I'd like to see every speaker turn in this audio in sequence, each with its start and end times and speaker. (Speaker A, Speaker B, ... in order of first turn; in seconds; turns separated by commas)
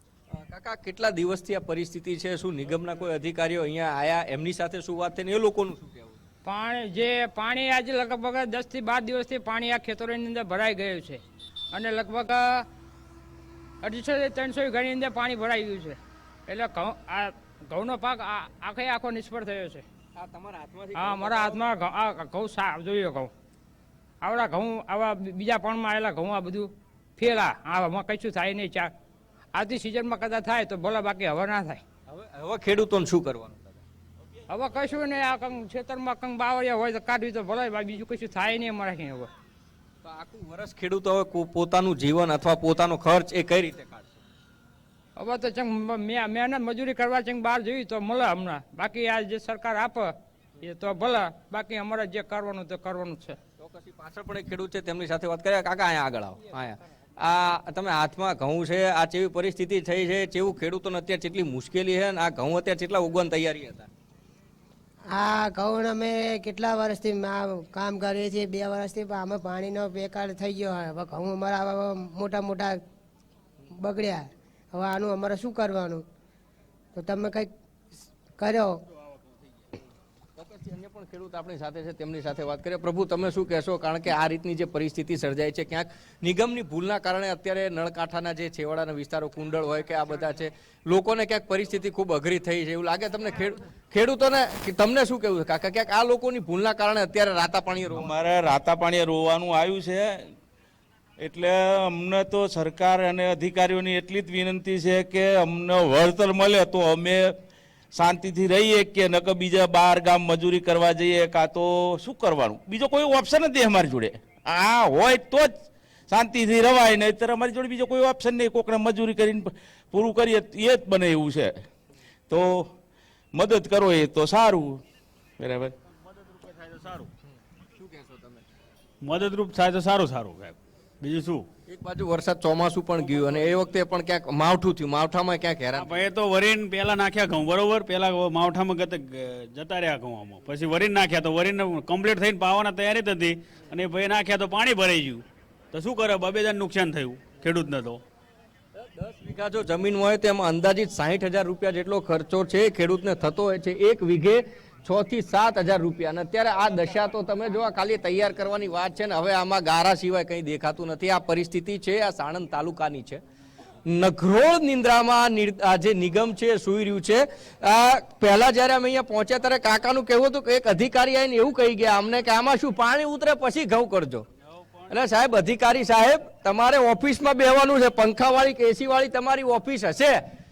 Speaker A: 0.3-6.2, Speaker B: 6.4-11.2, Speaker B: 11.7-12.7, Speaker B: 13.8-19.8, Speaker A: 20.1-21.6, Speaker B: 20.9-23.3, Speaker B: 24.2-28.9, Speaker B: 29.5-31.8, Speaker A: 32.1-33.8, Speaker B: 34.5-39.3, Speaker A: 40.0-44.1, Speaker B: 45.2-53.4, Speaker A: 53.6-63.9, Speaker C: 65.1-72.7, Speaker C: 73.9-74.2, Speaker C: 74.8-76.0, Speaker C: 77.0-77.4, Speaker C: 78.4-78.7, Speaker A: 80.4-98.1, Speaker D: 97.9-100.3, Speaker D: 101.2-107.3, Speaker D: 108.0-115.5, Speaker D: 116.1-121.5, Speaker D: 122.3-122.7, Speaker D: 123.3-124.8, Speaker D: 125.4-125.7, Speaker E: 126.1-127.1, Speaker A: 127.7-128.4, Speaker E: 129.0-131.5, Speaker A: 131.7-135.9, Speaker E: 135.7-148.0, Speaker A: 148.8-163.2, Speaker A: 163.9-174.2, Speaker A: 174.9-180.2